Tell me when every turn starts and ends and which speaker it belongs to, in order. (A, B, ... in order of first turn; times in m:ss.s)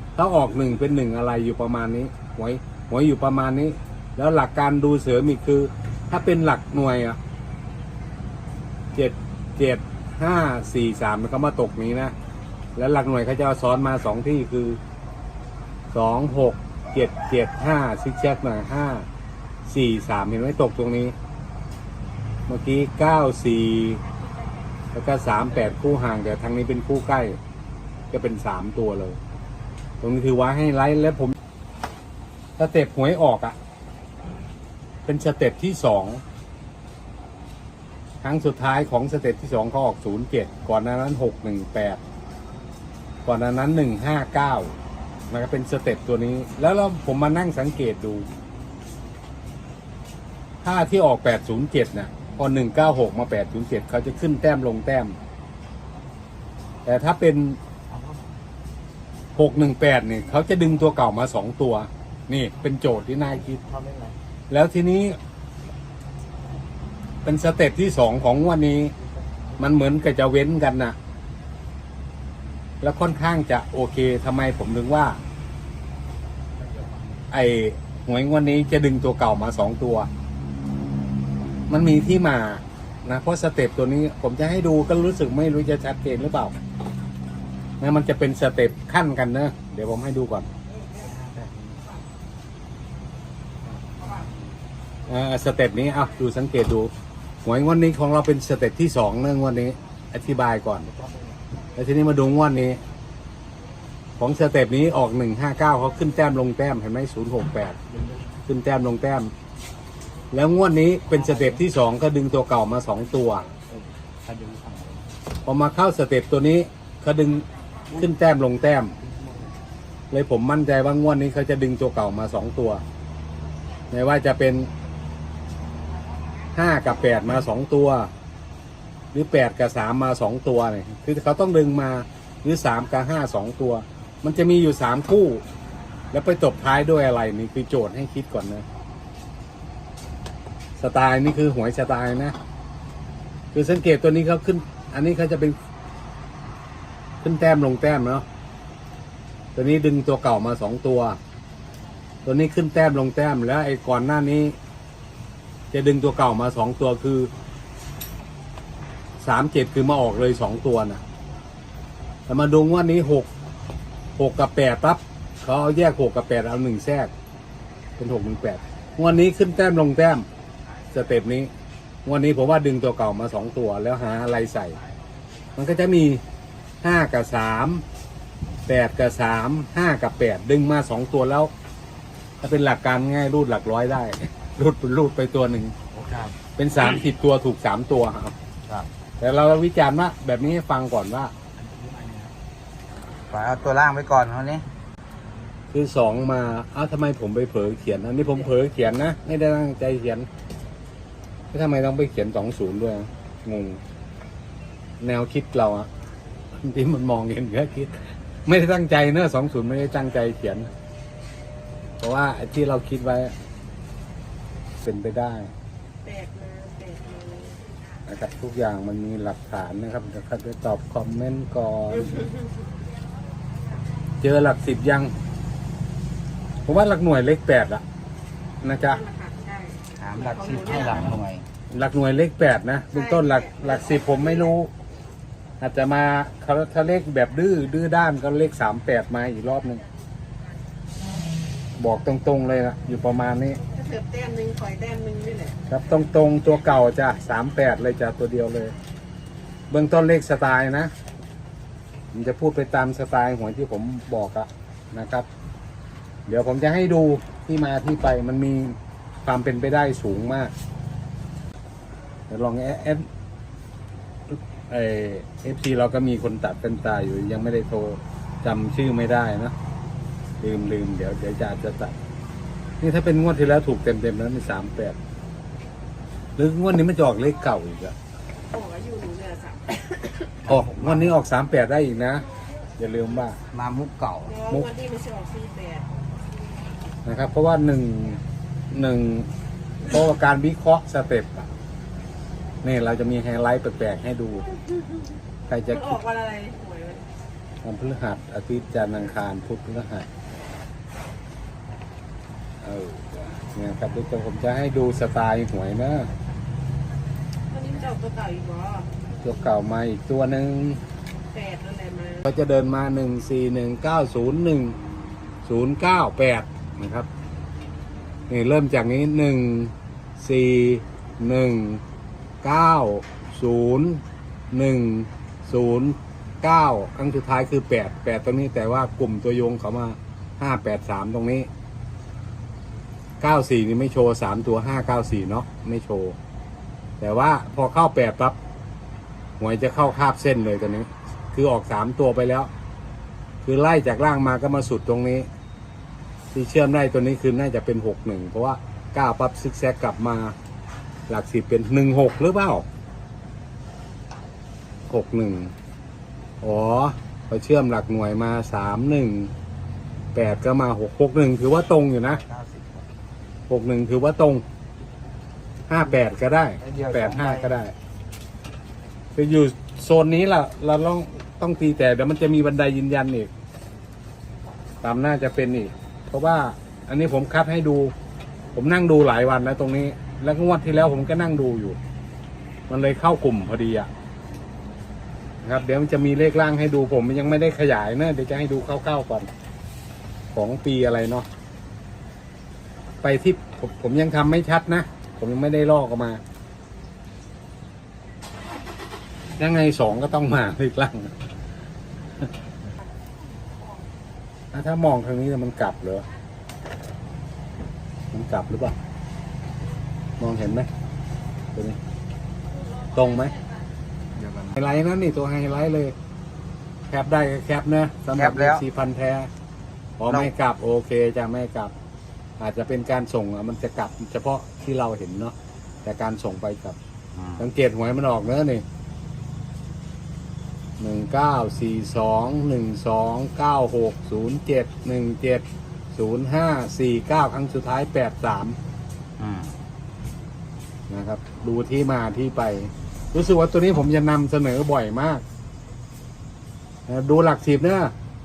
0:00.2-0:07.2 A
0:08.9-0:12.2 A
0:12.8-0:14.8 A
0:15.9-0:19.1 A
0:19.7-0:21.2 A
0:22.5-0:24.0 A
0:24.9-0:27.4 A
0:28.1-0:29.2 A
0:30.0-0:31.4 A
0:32.6-0:33.6 A
0:35.1-0:36.2 A
0:38.2-0:42.0 A
0:43.2-0:44.8 A
0:45.3-0:48.3 A
0:50.6-0:55.2 A
0:56.8-0:57.6 A
0:57.9-0:58.2 B
0:59.4-1:03.6 A
1:03.6-1:04.2 B
1:04.5-1:05.2 A
1:07.2-1:08.9 A
1:09.6-1:11.0 A
1:12.8-1:15.2 A
1:16.6-1:17.0 B
1:17.3-1:20.1 A
1:21.7-1:26.5 A
1:27.8-1:30.5 A
1:30.9-1:31.8 B
1:34.0-1:34.3 B
1:35.1-1:36.9 A
1:37.4-1:40.9 A
1:40.9-1:41.4 B
1:41.8-1:42.8 A
1:44.2-1:47.8 A
1:48.5-1:49.3 A
1:50.3-1:53.5 A
1:51.1-1:51.6 B
1:53.7-1:55.0 B
1:55.4-1:59.0 A
2:00.1-2:02.8 A
2:03.9-2:04.7 A
2:06.5-2:08.1 A
2:09.1-2:15.4 A
2:16.1-2:18.7 A
2:20.8-2:22.4 A
2:23.5-2:25.6 A
2:27.2-2:28.2 A
2:29.6-2:31.2 A
2:32.2-2:34.6 A
2:35.7-2:37.3 A
2:39.2-2:41.0 A
2:42.3-2:43.3 A
2:44.2-2:47.1 A
2:48.0-2:50.3 A
2:50.9-2:51.5 A
2:52.0-2:54.8 A
2:55.6-2:56.2 A
2:56.8-2:57.8 A
2:58.7-3:01.5 A
3:02.4-3:05.8 A
3:05.9-3:06.4 B
3:06.6-3:08.4 A
3:09.2-3:11.3 A
3:11.6-3:12.4 B
3:13.3-3:14.7 B
3:15.7-3:20.3 A
3:21.5-3:23.8 A
3:25.0-3:25.9 A
3:26.6-3:30.7 A
3:32.0-3:33.3 A
3:34.8-3:35.5 A
3:36.0-3:37.7 C
3:38.1-3:42.3 A
3:44.2-3:45.1 A
3:46.7-3:47.8 A
3:48.6-3:49.0 A
3:48.9-3:51.2 C
3:50.0-3:51.5 B
3:51.7-3:54.7 A
3:52.9-3:54.5 C
3:55.6-3:59.8 A
4:01.8-4:03.6 A
4:03.7-4:05.6 C
4:05.7-4:08.8 A
4:09.7-4:10.9 A
4:12.1-4:15.3 A
4:16.3-4:20.5 A
4:22.3-4:23.1 A
4:24.3-4:29.5 A
4:30.4-4:32.0 A
4:32.8-4:35.0 A
4:36.4-4:38.0 A
4:38.5-4:40.3 C
4:40.4-4:41.2 B
4:40.5-4:42.2 A
4:42.8-4:43.4 A
4:43.5-4:44.4 B
4:44.3-4:45.9 C
4:47.0-4:49.3 A
4:49.8-4:51.5 A
4:52.6-4:54.5 A
4:55.5-4:56.0 A
4:55.7-4:57.0 C
4:57.6-5:00.1 A
5:02.6-5:06.1 A
5:07.5-5:08.9 C
5:09.2-5:10.8 A
5:11.3-5:12.2 C
5:12.2-5:14.8 A
5:15.4-5:17.1 A
5:18.3-5:21.8 A
5:22.4-5:31.5 A
5:33.2-5:36.2 A
5:37.0-5:38.4 A
5:39.4-5:42.5 A
5:43.4-5:45.3 A
5:46.3-5:50.4 A
5:51.1-5:52.7 A
5:54.9-5:55.5 A
5:56.4-5:59.3 A
6:00.1-6:02.2 A
6:02.1-6:02.9 B
6:03.5-6:04.4 A
6:05.7-6:07.7 A
6:06.6-6:07.6 B
6:09.2-6:13.3 A
6:14.8-6:17.9 A
6:18.6-6:21.8 A
6:22.7-6:23.9 A
6:25.4-6:29.3 A
6:30.3-6:31.3 A
6:33.0-6:36.2 A
6:39.4-6:41.1 A
6:44.5-6:46.1 A
6:48.1-6:48.8 A
6:50.2-6:50.7 A
6:52.9-6:53.4 A
6:54.2-6:54.6 B
6:54.6-6:56.0 A
6:56.9-6:59.3 A
6:58.1-6:58.6 B
7:00.0-7:01.7 A
7:02.4-7:06.8 A
7:07.2-7:07.5 B
7:07.4-7:08.6 A
7:10.8-7:18.6 A
7:19.2-7:19.6 B
7:20.9-7:25.2 A
7:26.9-7:27.9 A